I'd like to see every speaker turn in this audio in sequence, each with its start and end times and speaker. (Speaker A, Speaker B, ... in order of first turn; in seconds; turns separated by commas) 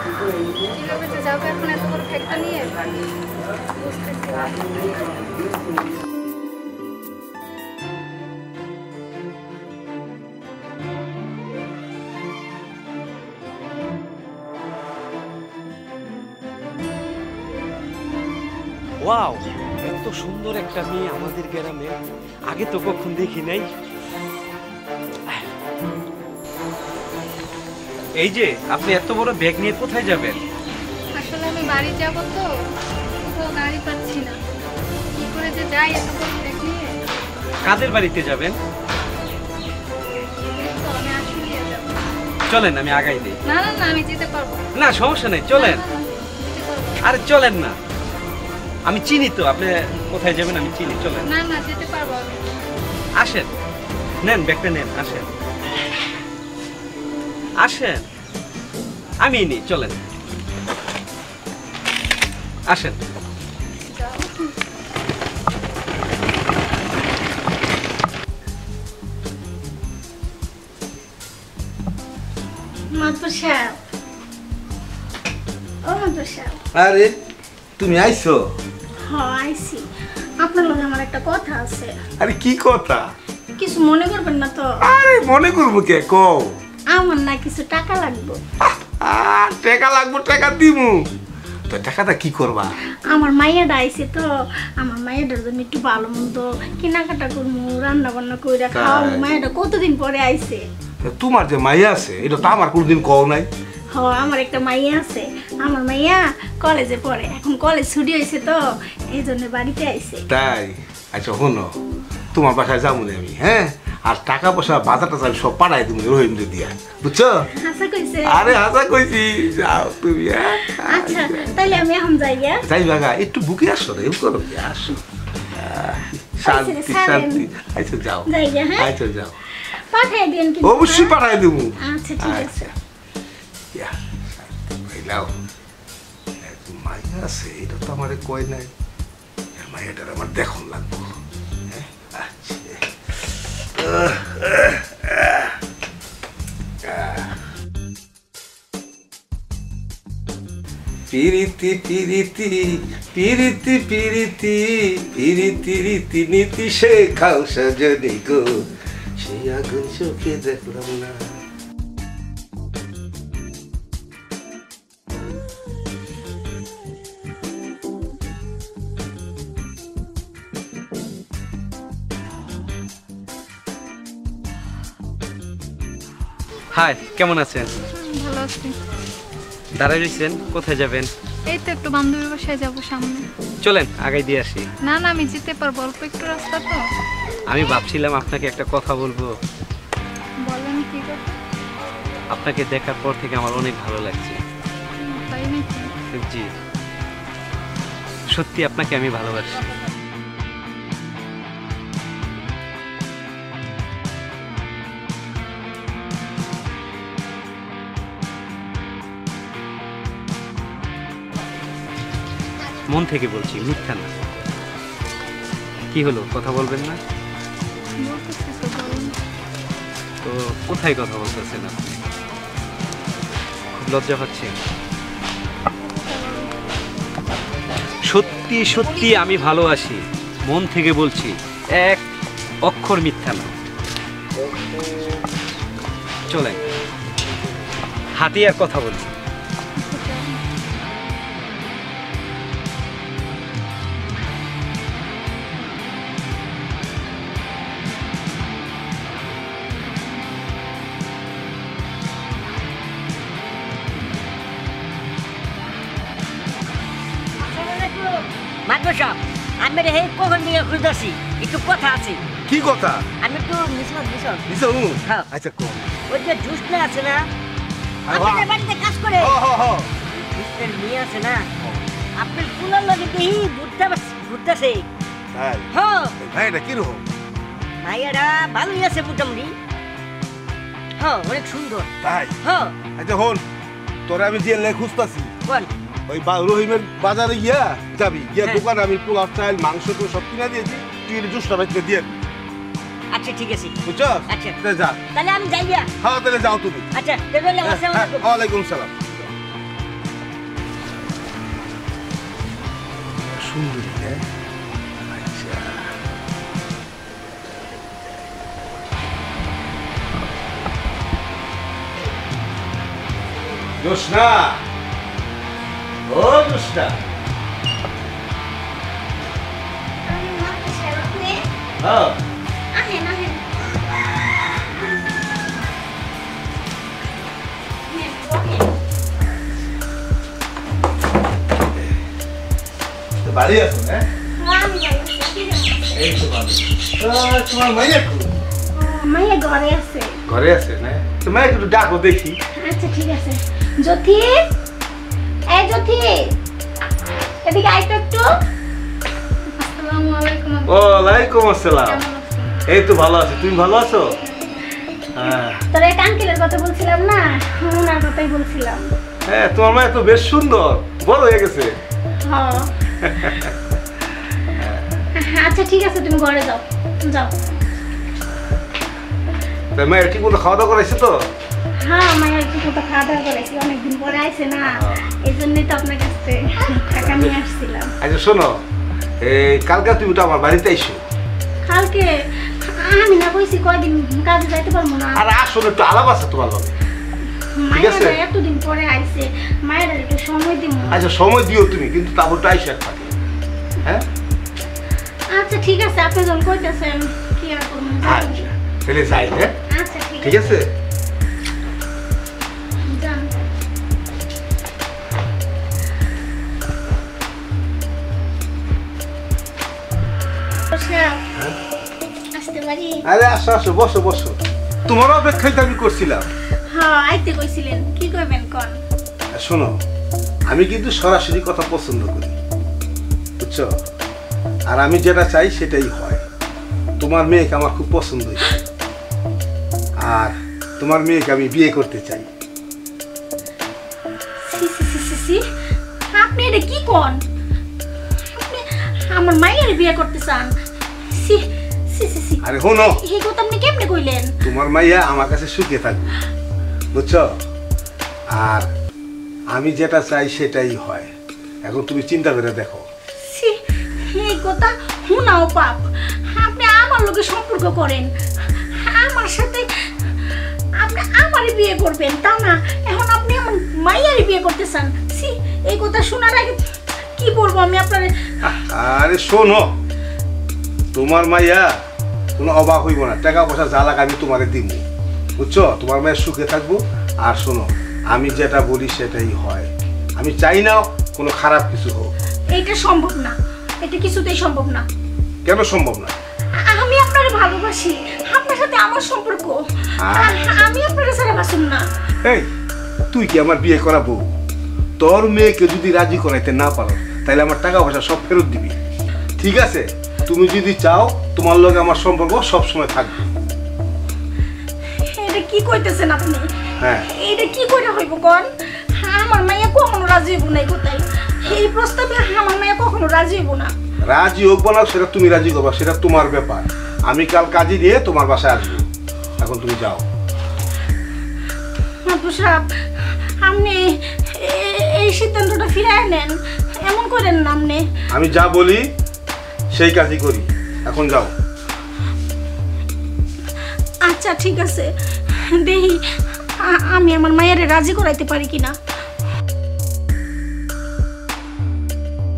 Speaker A: 0.7-2.8, Speaker A: 3.8-4.6, Speaker B: 19.0-21.9, Speaker B: 22.5-23.7, Speaker B: 28.2-30.4, Speaker A: 31.1-32.5, Speaker A: 33.2-34.4, Speaker A: 35.1-36.9, Speaker B: 37.6-38.6, Speaker A: 40.4-42.0, Speaker B: 42.5-43.4, Speaker A: 43.5-44.6, Speaker B: 44.8-45.8, Speaker A: 45.5-47.0, Speaker B: 47.0-47.8, Speaker B: 48.9-51.3, Speaker A: 51.2-52.4, Speaker B: 53.2-53.5, Speaker B: 54.2-55.3, Speaker B: 57.6-58.0, Speaker B: 59.2-60.1, Speaker B: 62.7-63.0, Speaker A: 63.9-64.3, Speaker C: 72.9-73.8, Speaker C: 75.8-76.6, Speaker D: 76.7-77.1, Speaker D: 77.8-78.4, Speaker C: 79.0-79.8, Speaker C: 80.4-81.9, Speaker D: 82.2-83.0, Speaker C: 83.6-84.7, Speaker D: 84.8-86.6, Speaker C: 86.9-88.4, Speaker D: 88.8-91.0, Speaker D: 91.7-92.7, Speaker C: 93.1-94.3, Speaker C: 94.8-100.7, Speaker D: 98.7-99.3, Speaker D: 101.0-103.5, Speaker C: 103.9-110.2, Speaker D: 110.3-111.7, Speaker D: 112.3-117.5, Speaker C: 117.6-118.6, Speaker D: 118.3-121.7, Speaker C: 120.6-122.6, Speaker D: 122.6-129.4, Speaker C: 126.5-127.4, Speaker C: 128.3-128.9, Speaker C: 129.6-131.2, Speaker D: 130.6-132.7, Speaker C: 131.8-132.7, Speaker D: 133.7-135.3, Speaker D: 136.4-138.7, Speaker D: 139.6-141.1, Speaker D: 141.7-142.9, Speaker D: 143.8-145.6, Speaker D: 146.8-147.3, Speaker D: 151.1-161.4, Speaker B: 176.7-177.7, Speaker A: 177.9-178.8, Speaker B: 179.8-181.1, Speaker A: 181.5-183.3, Speaker B: 183.6-184.7, Speaker A: 184.8-186.8, Speaker B: 187.5-189.3, Speaker A: 190.4-191.4, Speaker B: 192.3-194.4, Speaker A: 195.0-195.9, Speaker B: 196.1-196.5, Speaker B: 198.3-199.7, Speaker B: 212.9-214.1, Speaker B: 215.9-217.0, Speaker A: 218.0-219.2, Speaker B: 220.2-222.0, Speaker B: 223.8-224.6, Speaker C: 226.0-226.5, Speaker B: 228.1-232.0, Speaker B: 232.7-233.5, Speaker B: 236.3-236.6, Speaker B: 238.2-239.1, Speaker A: 239.8-240.4, Speaker E: 257.4-262.2, Speaker D: 262.5-263.1, Speaker E: 263.2-264.5, Speaker D: 264.5-266.0, Speaker E: 266.1-267.3, Speaker D: 268.1-268.6, Speaker E: 268.1-269.4, Speaker D: 269.2-269.9, Speaker E: 270.1-271.5, Speaker E: 272.2-274.9, Speaker D: 275.3-275.7, Speaker E: 275.7-276.1, Speaker D: 276.2-277.1, Speaker E: 277.8-279.6, Speaker E: 281.0-281.9, Speaker D: 282.0-282.4, Speaker E: 282.4-282.8, Speaker D: 282.9-283.4, Speaker D: 284.1-285.3, Speaker D: 286.1-292.2, Speaker E: 293.1-293.8, Speaker D: 293.9-295.0, Speaker E: 294.3-294.6, Speaker E: 295.1-295.9, Speaker D: 296.0-296.9, Speaker E: 296.9-298.3, Speaker D: 297.6-299.2, Speaker D: 303.2-304.2, Speaker D: 305.1-305.9, Speaker D: 313.8-314.6, Speaker D: 316.1-317.0, Speaker C: 320.0-321.4, Speaker D: 321.8-322.2, Speaker C: 322.7-323.5, Speaker C: 327.9-328.7, Speaker D: 333.2-334.0, Speaker C: 334.4-336.0, Speaker D: 335.9-338.3, Speaker C: 338.8-340.1, Speaker D: 340.3-342.4, Speaker C: 342.6-344.4, Speaker C: 345.5-346.2, Speaker C: 347.4-348.2, Speaker A: 349.5-351.2, Speaker D: 350.7-352.0, Speaker A: 351.8-352.6, Speaker D: 352.7-354.1, Speaker D: 355.2-355.6, Speaker C: 355.7-358.8, Speaker D: 359.3-361.7, Speaker C: 362.3-362.7, Speaker D: 363.0-363.6, Speaker D: 364.6-365.0, Speaker C: 365.2-367.3, Speaker D: 369.8-371.2, Speaker C: 371.9-377.9, Speaker D: 374.7-375.0, Speaker D: 377.1-377.4, Speaker D: 378.0-378.6, Speaker D: 379.2-381.0, Speaker C: 381.6-382.1, Speaker C: 382.7-385.2, Speaker D: 385.1-386.7, Speaker C: 387.6-391.0, Speaker D: 387.7-388.2, Speaker D: 390.9-393.2, Speaker C: 395.4-398.5, Speaker D: 398.0-399.5, Speaker C: 399.7-400.5, Speaker D: 400.2-400.7, Speaker C: 402.9-403.3, Speaker C: 410.7-411.2, Speaker C: 412.4-413.0, Speaker D: 413.1-414.4, Speaker D: 414.9-416.3, Speaker C: 416.7-418.8, Speaker D: 419.4-419.7, Speaker D: 420.5-422.4, Speaker D: 423.4-423.7, Speaker D: 424.7-426.2, Speaker D: 427.0-428.6, Speaker D: 430.0-432.3, Speaker C: 434.4-435.4, Speaker C: 436.1-437.2, Speaker C: 438.4-440.5, Speaker C: 441.1-444.3, Speaker D: 442.4-443.0, Speaker D: 444.4-446.1, Speaker D: 446.9-447.3, Speaker D: 448.3-448.7, Speaker D: 449.5-451.1, Speaker D: 451.6-452.8, Speaker C: 453.2-453.6, Speaker C: 454.1-458.1, Speaker C: 458.6-459.7, Speaker C: 460.8-466.6, Speaker C: 467.2-468.1, Speaker D: 468.4-469.7, Speaker D: 470.9-471.7, Speaker D: 472.4-474.8, Speaker D: 475.4-482.1, Speaker C: 482.5-484.8, Speaker D: 485.4-486.1, Speaker C: 486.6-491.9, Speaker D: 490.0-490.7, Speaker D: 493.1-494.3, Speaker D: 495.0-498.8, Speaker D: 499.4-503.3, Speaker C: 505.0-506.4, Speaker D: 506.8-507.1, Speaker C: 507.1-508.4, Speaker C: 509.0-513.7, Speaker D: 514.0-518.9, Speaker D: 519.4-520.0, Speaker C: 522.1-527.8, Speaker D: 528.1-528.9, Speaker D: 529.7-531.3, Speaker C: 534.1-536.0, Speaker C: 536.6-538.8